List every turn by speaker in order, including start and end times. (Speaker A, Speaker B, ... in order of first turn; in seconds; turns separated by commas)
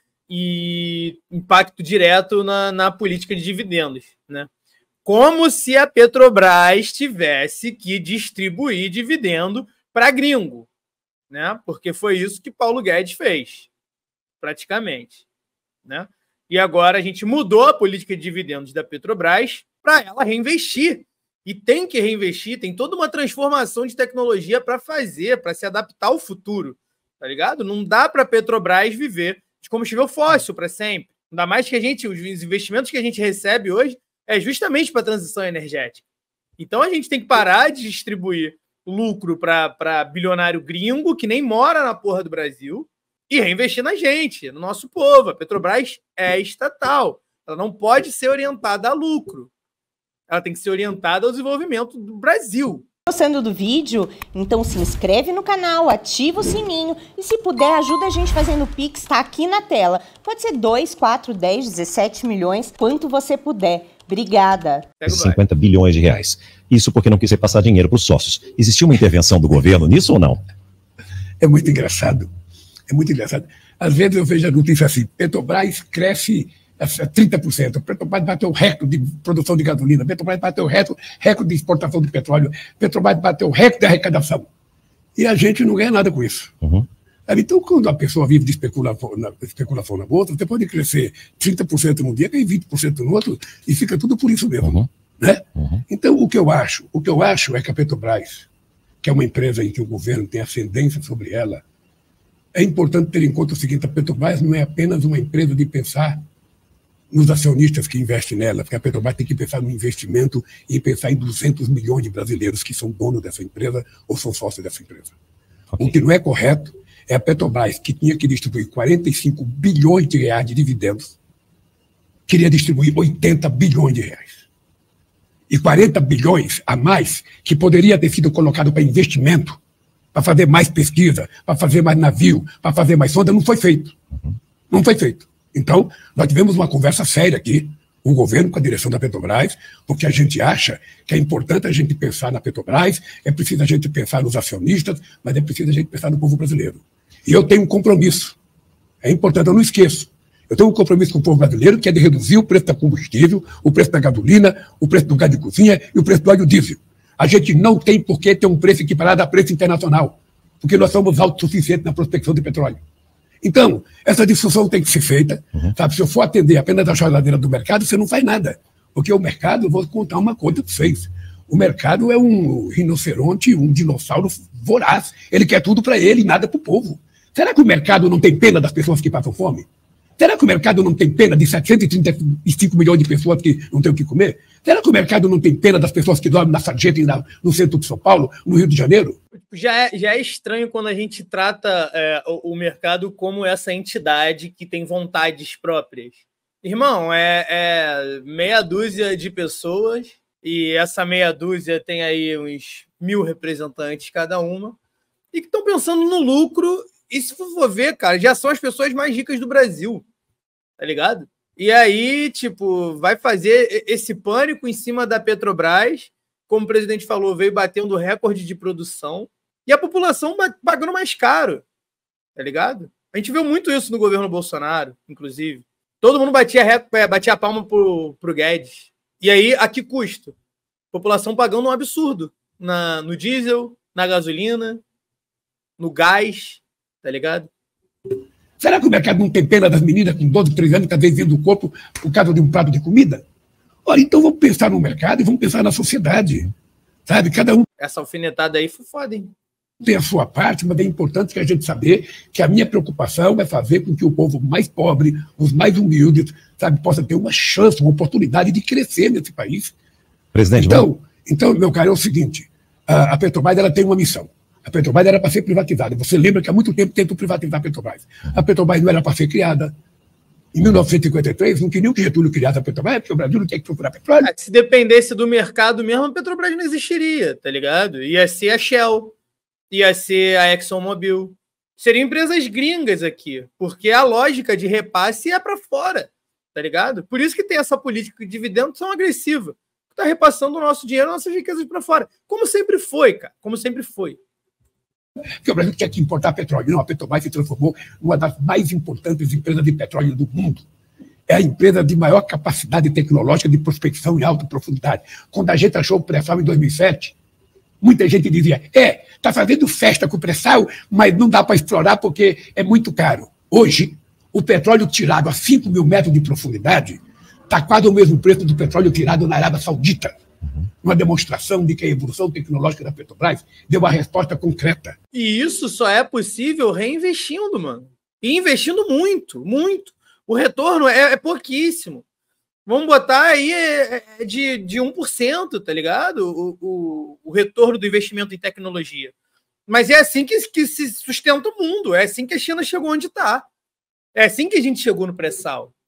Speaker A: 0.3-4.5, Speaker A: 5.0-10.7, Speaker A: 11.3-13.7, Speaker A: 14.4-15.2, Speaker A: 15.8-36.0, Speaker A: 36.6-49.5, Speaker A: 50.3-52.8, Speaker B: 53.1-64.9, Speaker A: 65.0-65.4, Speaker C: 65.0-70.4, Speaker D: 71.4-72.3, Speaker D: 72.9-84.5, Speaker D: 85.2-86.6, Speaker D: 87.3-98.5, Speaker D: 99.0-101.6, Speaker D: 102.5-106.2, Speaker D: 107.1-115.1, Speaker D: 115.8-121.1, Speaker D: 122.3-124.4, Speaker D: 125.5-129.6, Speaker D: 130.1-133.9, Speaker D: 134.7-148.4, Speaker D: 149.0-162.8, Speaker D: 163.4-179.7, Speaker D: 180.2-189.2, Speaker A: 189.4-204.8, Speaker A: 205.3-210.0, Speaker A: 210.8-221.6, Speaker A: 222.3-230.3, Speaker A: 230.9-234.8, Speaker A: 235.8-237.5, Speaker D: 238.6-243.2, Speaker D: 243.8-246.5, Speaker D: 247.1-247.7, Speaker A: 247.8-249.3, Speaker D: 249.8-259.7, Speaker C: 260.3-260.9, Speaker D: 260.6-269.7, Speaker D: 270.5-274.3, Speaker A: 274.2-279.1, Speaker A: 279.7-294.2, Speaker D: 295.4-300.6, Speaker D: 301.3-307.1, Speaker D: 307.8-320.1, Speaker D: 320.8-324.9, Speaker A: 325.1-332.0, Speaker A: 332.6-339.1, Speaker A: 339.7-343.4, Speaker A: 344.1-345.7